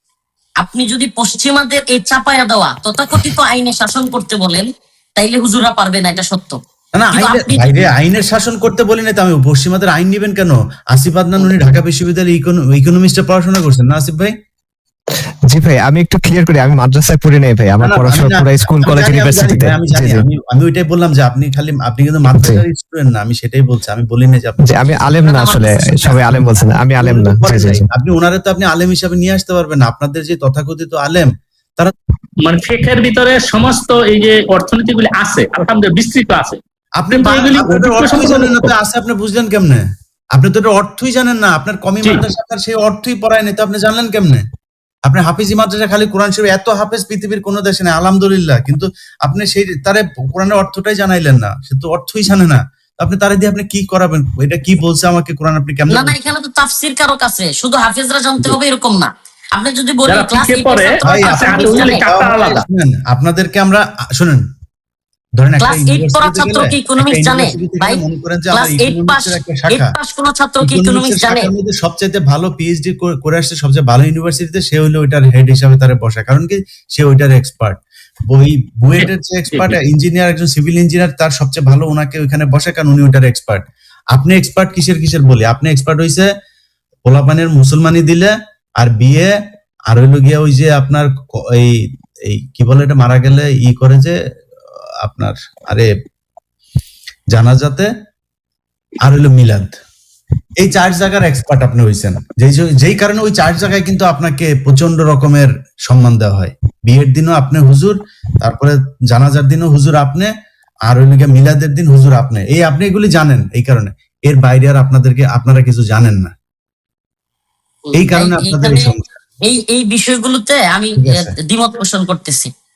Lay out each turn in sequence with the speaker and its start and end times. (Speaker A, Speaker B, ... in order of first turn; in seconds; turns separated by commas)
Speaker A: 0.6-6.6, Speaker B: 6.9-14.3, Speaker A: 7.1-7.9, Speaker C: 15.5-20.2, Speaker B: 17.8-24.9, Speaker C: 24.6-27.9, Speaker A: 25.2-26.3, Speaker B: 27.0-31.9, Speaker D: 32.4-36.6, Speaker B: 37.0-39.8, Speaker D: 37.1-38.7, Speaker B: 40.4-44.4, Speaker B: 45.1-56.2, Speaker A: 55.9-62.0, Speaker D: 60.0-62.6, Speaker B: 61.0-64.4, Speaker B: 65.4-69.9, Speaker A: 65.6-68.0, Speaker A: 68.5-71.5, Speaker B: 70.6-83.6, Speaker D: 79.0-79.8, Speaker B: 84.1-86.3, Speaker B: 87.0-89.3, Speaker B: 89.9-91.7, Speaker B: 92.3-94.2, Speaker B: 95.0-95.9, Speaker B: 97.3-97.9, Speaker B: 99.0-99.8, Speaker B: 100.6-110.3, Speaker B: 110.9-116.3, Speaker A: 118.0-118.9, Speaker B: 118.0-119.0, Speaker A: 119.5-122.5, Speaker B: 121.0-121.3